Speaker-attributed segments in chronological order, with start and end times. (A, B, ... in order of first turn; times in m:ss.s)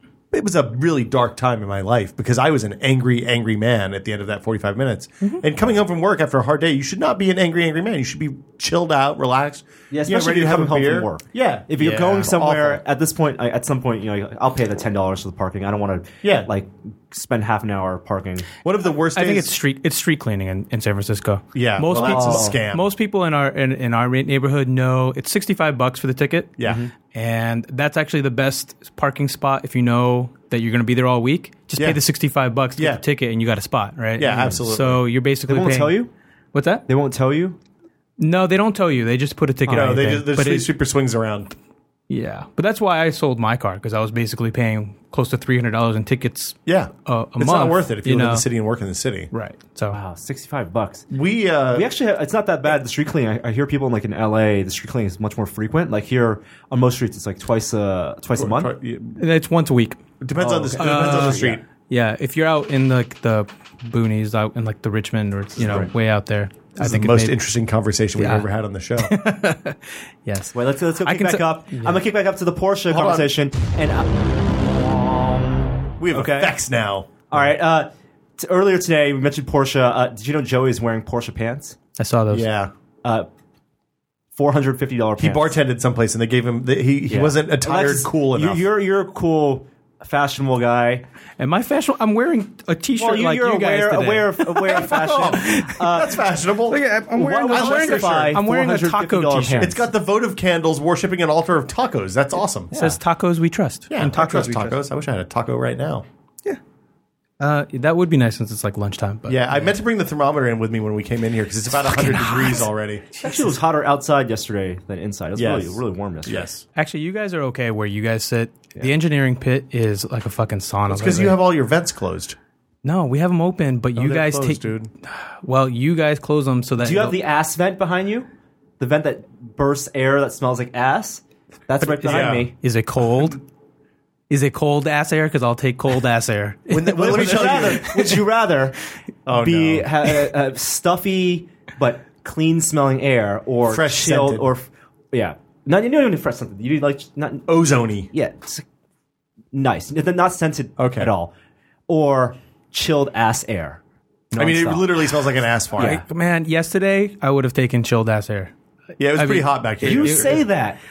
0:00.3-0:12.8 A
0:09.9-0:18.5 B
0:11.8-0:12.3 C
0:16.2-0:16.5 A
0:18.6-0:19.5 A
0:19.1-0:26.6 C
0:21.5-0:22.8 A
0:21.9-0:22.6 B
0:26.6-0:26.8 A
0:26.6-0:26.9 B
0:27.1-0:36.0 C
0:32.8-0:33.0 A
0:34.2-0:35.0 A
0:34.3-0:34.6 B
0:35.5-0:36.1 B
0:36.5-0:36.9 C
0:36.9-0:37.6 B
0:38.2-0:40.7 C
0:39.6-0:41.5 A
0:42.1-0:48.4 C
0:46.6-0:49.3 A
0:49.3-0:50.0 C
0:49.9-0:51.0 B
0:51.1-0:51.9 A
0:51.7-0:58.7 B
0:58.4-0:59.2 A
0:59.2-1:00.0 C
1:00.2-1:01.6 A
1:00.4-1:01.6 B
1:00.8-1:07.4 C
1:05.6-1:05.9 A
1:06.8-1:09.2 A
1:08.2-1:08.4 C
1:09.0-1:12.0 C
1:10.5-1:16.6 B
1:12.9-1:13.3 A
1:16.0-1:17.5 A
1:17.3-1:21.8 B
1:22.0-1:22.5 C
1:22.3-1:22.7 A
1:24.3-1:25.6 B
1:25.2-1:28.6 A
1:27.1-1:31.0 B
1:31.4-1:35.8 C
1:33.0-1:36.2 B
1:34.7-1:36.8 A
1:36.7-1:39.8 C
1:37.1-1:39.8 B
1:37.5-1:38.4 A
1:39.6-1:42.8 A
1:42.7-1:44.8 C
1:43.9-1:46.0 A
1:47.4-1:49.7 C
1:49.3-1:53.1 A
1:51.7-1:53.5 C
1:53.2-1:56.5 B
1:55.3-1:56.6 A
1:56.7-2:01.4 C
2:00.9-2:02.4 A
2:02.8-2:07.2 C
2:04.0-2:04.9 A
2:06.8-2:08.3 B
2:08.8-2:12.5 B
2:11.8-2:13.4 C
2:12.0-2:12.5 A
2:14.3-2:18.1 C
2:16.7-2:18.1 A
2:16.9-2:18.7 B
2:19.2-2:19.9 A
2:19.3-2:27.5 B
2:23.6-2:24.5 A
2:27.5-2:28.1 A
2:28.1-2:28.6 B
2:29.5-2:31.3 B
2:30.8-2:31.1 A
2:31.9-2:35.0 B
2:34.3-2:36.0 A
2:35.8-2:38.5 C
2:39.0-2:40.4 A
2:39.1-2:40.4 C
2:39.8-2:40.8 B